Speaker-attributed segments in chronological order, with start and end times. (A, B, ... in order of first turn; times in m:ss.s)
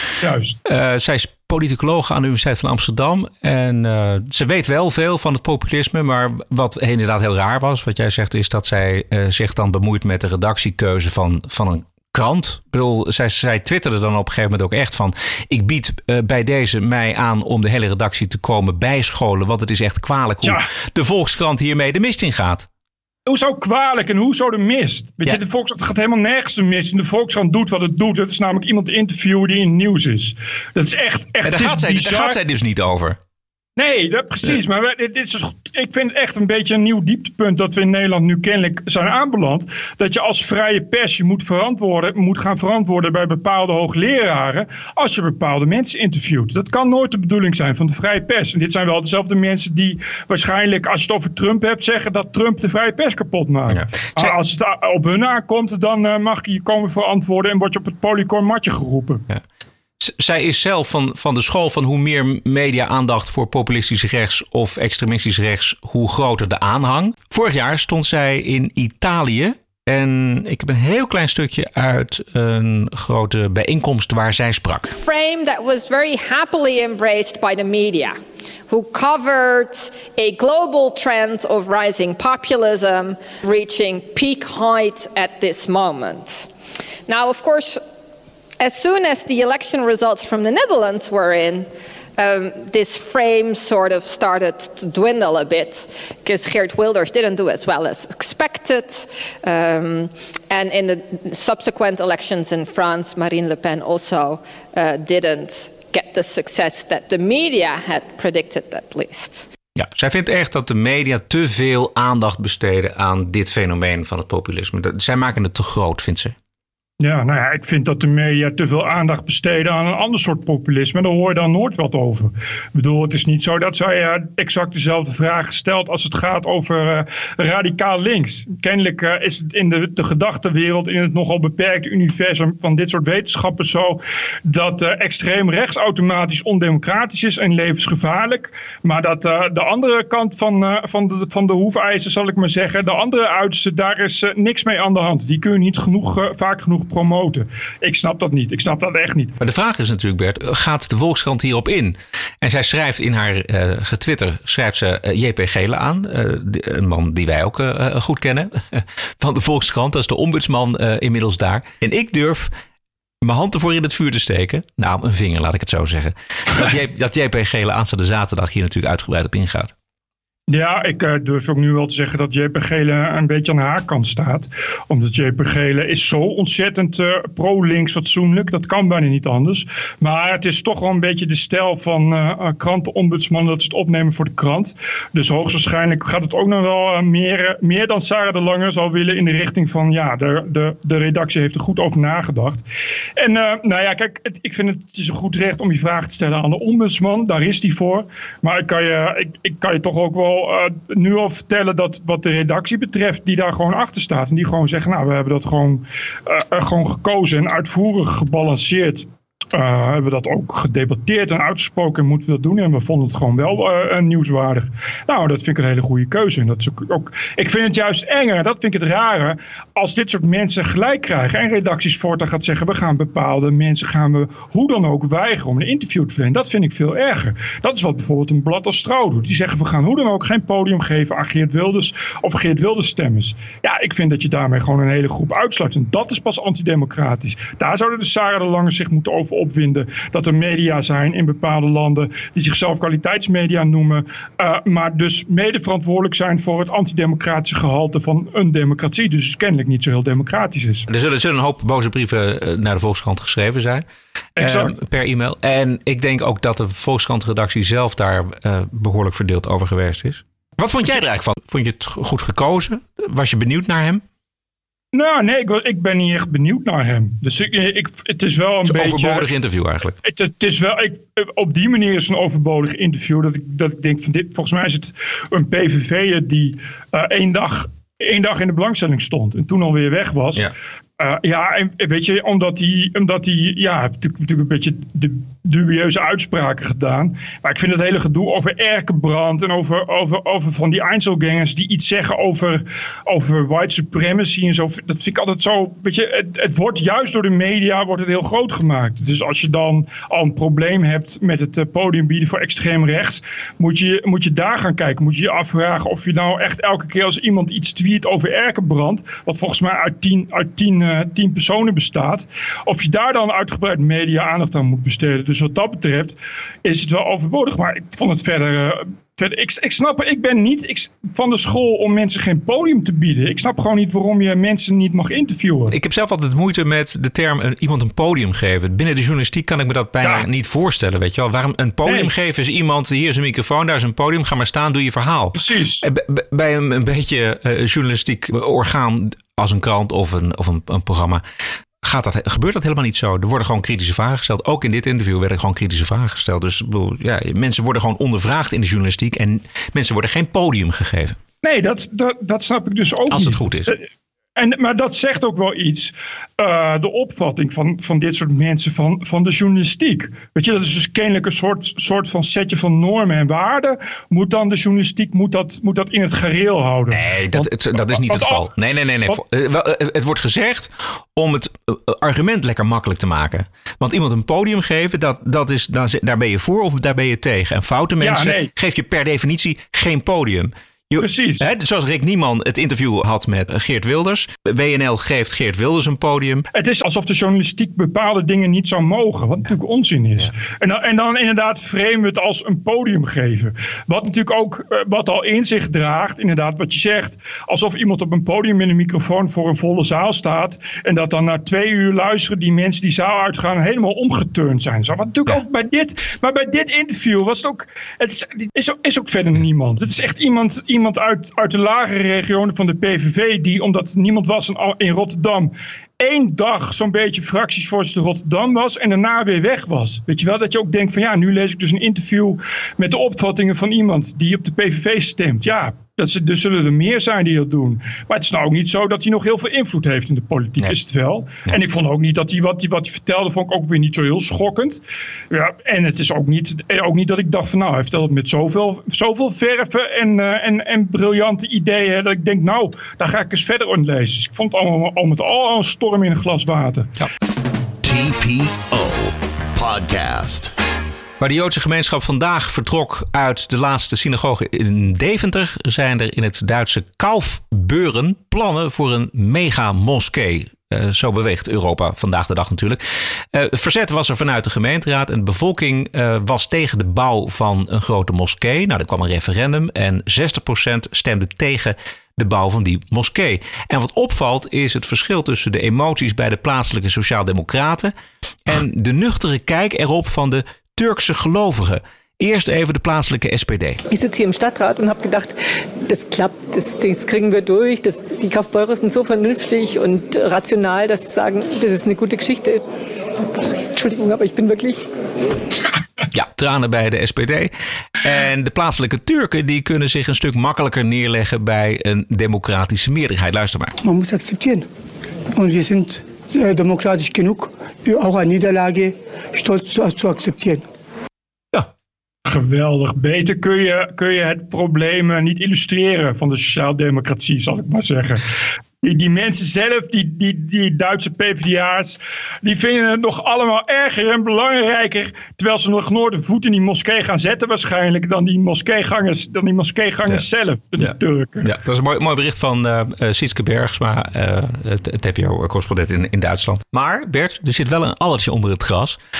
0:00.2-0:00.6 A
0:00.6-0:22.7 B
0:23.2-0:32.4 A
0:31.4-0:33.2 B
0:33.8-0:59.2 A
0:53.7-0:54.4 B
1:00.0-1:14.9 B
1:14.9-1:18.2 C
1:18.7-1:26.5 C
1:27.1-1:27.8 C
1:28.6-1:49.4 C
1:49.8-1:56.3 B
1:57.0-2:29.3 A
2:29.4-2:42.5 B
2:43.2-2:49.7 B
2:50.5-3:12.6 A
3:13.2-4:10.8 A
4:10.9-4:13.8 B
4:14.4-4:14.7 A
4:14.4-4:24.0 B
4:24.9-4:29.2 A
4:28.6-4:29.9 B
4:30.0-4:40.4 A
4:41.0-5:25.7 A
5:25.7-5:41.2 B
5:31.8-5:32.1 A
5:35.4-5:35.8 A
5:41.8-5:51.2 B
5:51.4-5:53.8 A
5:53.1-5:53.7 B
5:54.4-6:08.5 A
6:06.9-6:26.4 B
6:18.0-6:18.5 A
6:21.0-6:21.5 A
6:26.5-7:26.9 A
7:27.8-7:30.5 D
7:31.2-7:42.8 B
7:43.3-7:57.9 B
7:58.4-8:03.8 B
8:03.9-8:12.6 E
8:13.3-8:14.8 E
8:16.1-8:23.7 B
8:23.8-8:24.7 F
8:25.3-8:30.7 F
8:32.2-8:38.2 A
8:38.8-8:51.5 A
8:50.8-8:59.0 B